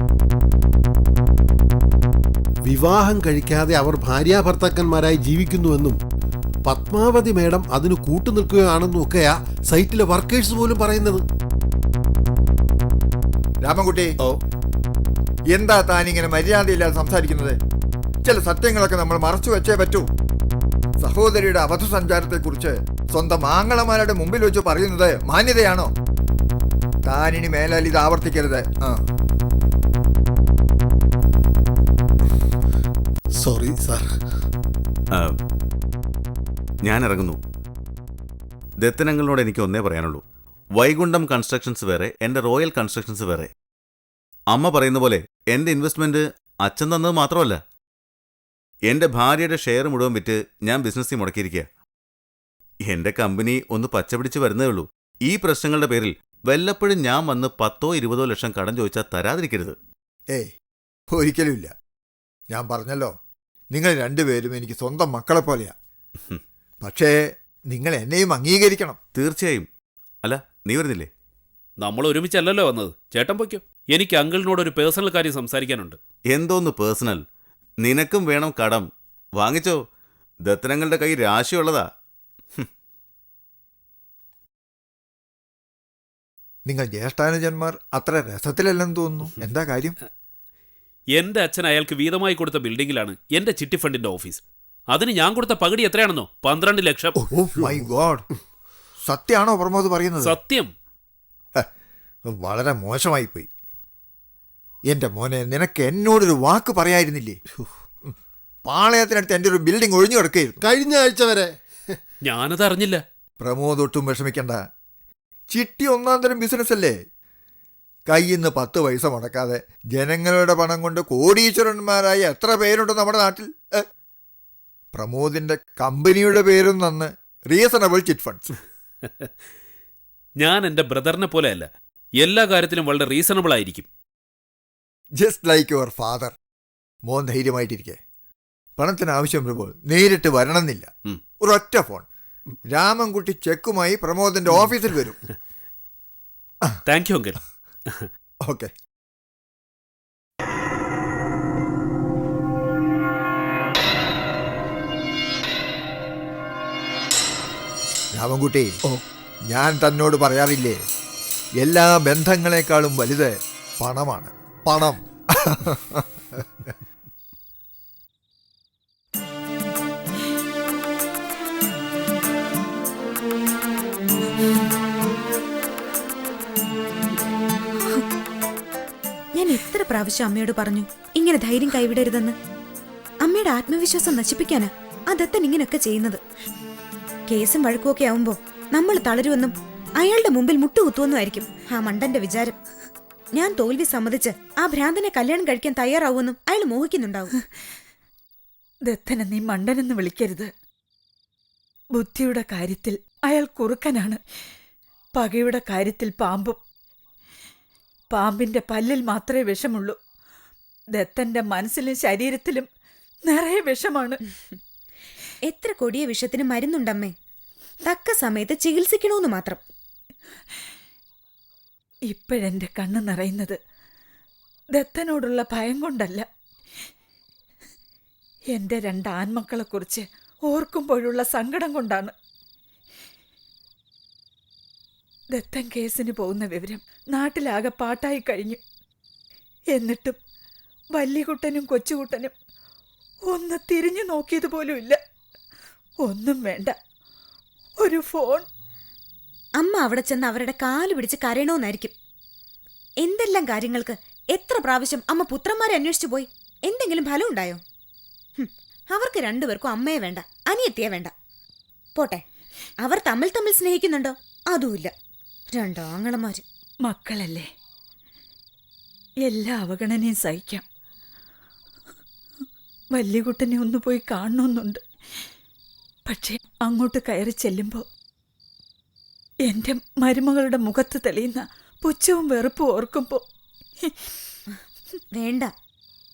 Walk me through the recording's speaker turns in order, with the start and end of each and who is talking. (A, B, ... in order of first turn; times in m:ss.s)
0:02.7-0:06.0 A
0:06.6-0:11.2 A
0:13.6-0:14.1 B
0:15.5-0:17.6 B
0:18.2-0:20.1 B
0:21.0-0:25.9 B
0:27.0-0:29.0 B
0:33.4-0:34.1 A
0:36.8-0:37.4 C
0:38.8-0:40.2 C
0:40.7-0:43.5 C
0:44.5-0:47.6 C
0:48.9-0:51.7 C
0:52.8-0:59.8 C
1:01.1-1:01.7 B
1:02.5-1:03.1 B
1:03.7-1:05.7 B
1:06.8-1:07.1 B
1:07.7-1:09.0 B
1:09.1-1:09.7 C
1:10.2-1:11.1 C
1:11.8-1:16.0 D
1:16.3-1:17.2 C
1:17.8-1:19.8 C
1:20.4-1:21.9 C
1:26.7-1:30.0 B
1:31.1-1:37.2 D
1:37.3-1:38.2 B
1:39.1-1:40.4 B
1:40.2-1:40.7 D
1:42.3-1:43.5 B
1:44.9-1:47.4 B
1:48.7-1:50.6 B
1:50.6-1:51.5 A
1:52.2-1:53.0 D
1:53.4-1:54.6 B
1:55.5-1:56.9 B
1:58.1-2:03.8 B
2:04.9-2:08.5 B
2:10.4-2:11.7 D
2:12.2-2:13.9 D
2:15.2-2:16.3 B
2:17.1-2:18.0 B
2:18.8-2:20.9 B
2:21.4-2:22.0 B
2:22.7-2:25.2 B
2:26.8-2:27.4 D
2:38.2-2:38.8 B
2:39.5-2:40.8 B
2:41.6-2:46.4 B
2:59.4-3:02.3 E
3:03.2-3:06.2 E
3:07.3-3:12.6 E
3:13.3-3:17.3 E
3:18.8-3:20.5 F
3:22.0-3:24.2 F
3:25.1-3:26.6 F
3:28.1-3:30.0 F
3:30.9-3:32.7 F
3:33.3-3:34.2 F
3:35.4-3:37.1 E
3:37.8-3:39.6 E
3:42.1-3:43.6 F
3:44.7-3:46.2 F
3:48.5-3:52.1 F
3:55.3-3:58.6 F
3:59.7-4:00.2 F
4:01.0-4:02.3 F
4:03.3-4:05.0 F
4:06.0-4:06.7 F
4:07.8-4:08.4 F
4:09.6-4:11.9 E
4:13.0-4:17.6 E
4:18.4-4:21.1 E
4:22.0-4:22.2 E
4:22.8-4:24.9 E
4:25.5-4:26.4 E
4:26.8-4:27.5 F
4:29.2-4:30.6 F
4:32.9-4:34.8 F
4:36.1-4:37.8 F
4:39.5-4:43.2 F
4:45.1-4:45.5 E